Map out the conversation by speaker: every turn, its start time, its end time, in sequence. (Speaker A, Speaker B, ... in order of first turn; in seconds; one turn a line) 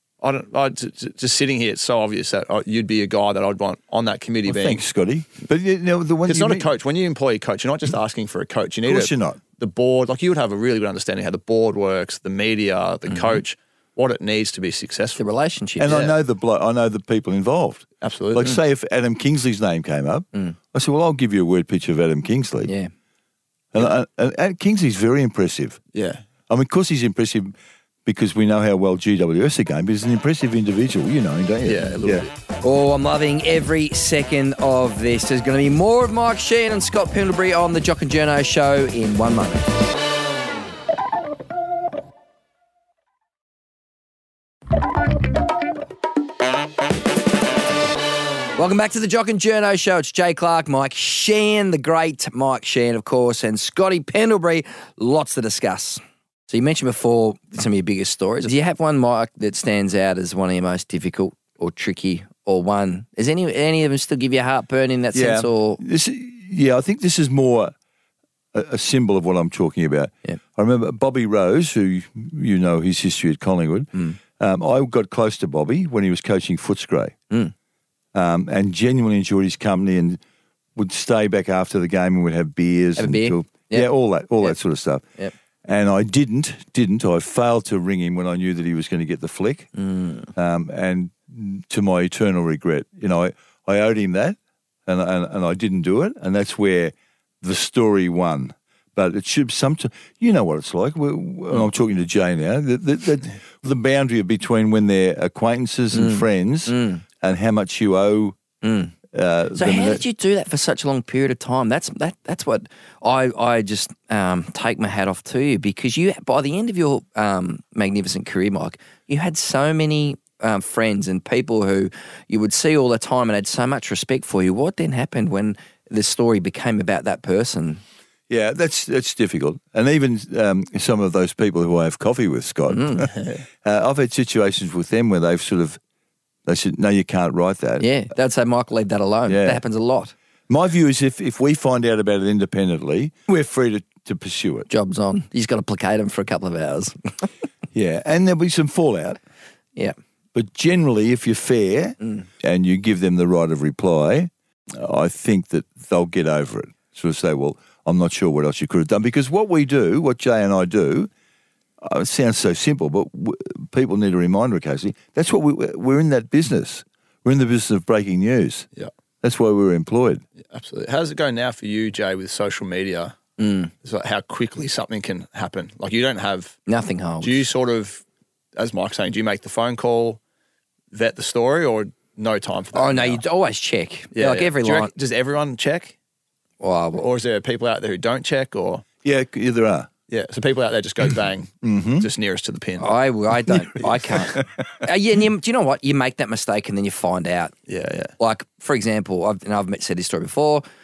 Speaker A: 0.2-4.8
Speaker B: 4.5-6.7
Speaker A: 6.3-15.2
Speaker B: 8.9-9.4
Speaker C: 13.1-13.4
Speaker C: 15.2-16.0
Speaker B: 15.8-22.7
Speaker A: 15.9-16.2
Speaker A: 18.0-18.6
Speaker C: 22.7-22.9
Speaker B: 23.7-25.8
Speaker A: 25.9-26.2
Speaker B: 26.5-27.5
Speaker B: 28.1-32.3
Speaker A: 31.6-32.3
Speaker C: 32.6-39.7
Speaker C: 48.6-65.8
Speaker B: 65.1-67.7
Speaker B: 68.5-77.2
Speaker B: 78.1-80.2
Speaker B: 80.8-85.0
Speaker C: 83.0-84.6
Speaker B: 85.7-89.7
Speaker C: 89.8-90.3
Speaker B: 90.3-108.4
Speaker C: 105.9-107.0
Speaker C: 108.6-108.9
Speaker B: 109.1-110.0
Speaker C: 109.5-127.8
Speaker B: 128.3-135.8
Speaker C: 132.7-133.1
Speaker A: 133.1-133.4
Speaker B: 136.5-137.9
Speaker C: 137.8-140.1
Speaker B: 139.3-139.6
Speaker B: 140.5-144.7
Speaker C: 144.7-147.3
Speaker B: 147.7-149.2
Speaker B: 150.3-161.1
Speaker B: 161.8-168.7
Speaker B: 169.2-170.2
Speaker A: 170.5-173.2
Speaker C: 173.4-173.7
Speaker A: 173.8-176.6
Speaker C: 176.7-177.5
Speaker A: 177.2-178.0
Speaker A: 178.6-180.2
Speaker A: 180.9-183.2
Speaker C: 182.7-184.9
Speaker A: 184.2-186.0
Speaker C: 186.6-187.0
Speaker A: 187.0-188.8
Speaker B: 189.0-189.9
Speaker A: 190.1-193.0
Speaker B: 191.6-192.1
Speaker C: 192.8-197.5
Speaker A: 197.7-198.1
Speaker C: 198.2-200.6